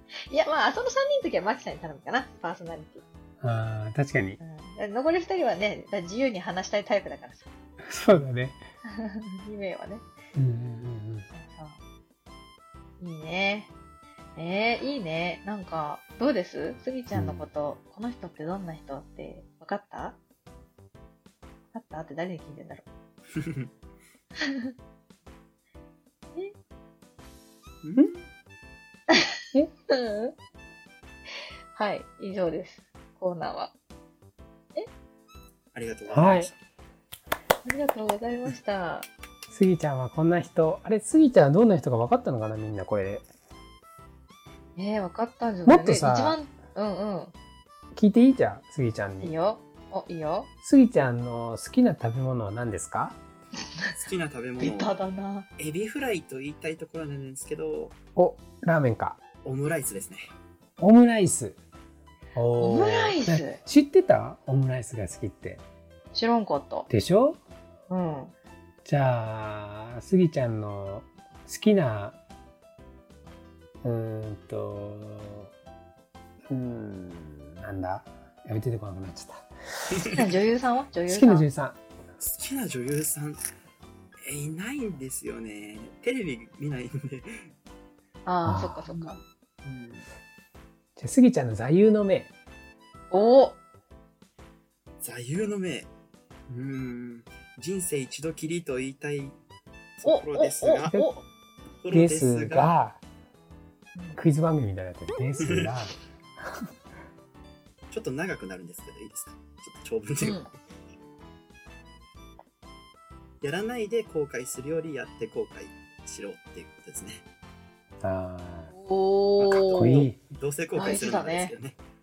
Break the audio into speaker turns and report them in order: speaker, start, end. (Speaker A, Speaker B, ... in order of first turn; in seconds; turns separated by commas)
Speaker A: 0.3-3.0, Speaker B: 3.4-4.4, Speaker A: 4.4-7.5, Speaker B: 7.8-8.6, Speaker A: 8.9-10.1, Speaker B: 10.3-11.3, Speaker A: 11.3-11.8, Speaker A: 13.0-13.7, Speaker A: 14.3-20.2, Speaker B: 17.1-17.5, Speaker A: 21.7-22.9, Speaker C: 23.3-23.7, Speaker A: 24.4-24.7, Speaker C: 27.8-28.2, Speaker A: 29.9-30.3, Speaker A: 31.7-33.7, Speaker C: 35.7-36.6, Speaker B: 36.1-36.5, Speaker A: 37.6-39.1, Speaker B: 39.5-43.2, Speaker A: 44.8-47.3, Speaker B: 45.6-46.4, Speaker B: 47.9-49.3, Speaker A: 49.2-50.5, Speaker B: 50.6-53.2, Speaker C: 54.0-54.9, Speaker A: 54.6-55.5, Speaker C: 55.6-57.9, Speaker B: 58.1-59.2, Speaker C: 59.4-60.3, Speaker B: 60.8-61.6, Speaker B: 62.3-65.6, Speaker A: 62.5-63.6, Speaker A: 66.1-66.9, Speaker B: 66.9-67.4, Speaker A: 67.9-68.3, Speaker B: 68.8-72.2, Speaker B: 73.8-75.5, Speaker B: 76.5-79.5, Speaker C: 79.9-80.3, Speaker A: 80.1-81.5, Speaker B: 81.1-81.8, Speaker C: 82.3-83.4, Speaker C: 84.2-87.5, Speaker A: 88.2-89.2, Speaker B: 88.4-89.1, Speaker C: 89.6-90.1, Speaker B: 91.0-92.3, Speaker A: 93.1-93.6, Speaker C: 95.0-95.9, Speaker C: 96.5-99.4, Speaker C: 100.0-100.9, Speaker A: 100.0-101.2, Speaker B: 100.9-101.1, Speaker C: 101.8-102.7, Speaker B: 101.9-103.0, Speaker A: 103.9-104.2, Speaker B: 104.2-106.7, Speaker C: 105.5-105.7, Speaker C: 107.9-110.4, Speaker A: 110.2-110.5, Speaker C: 113.4-117.2, Speaker B: 118.0-118.7, Speaker A: 118.7-120.1, Speaker C: 119.4-121.8, Speaker B: 119.5-120.2, Speaker A: 120.7-121.5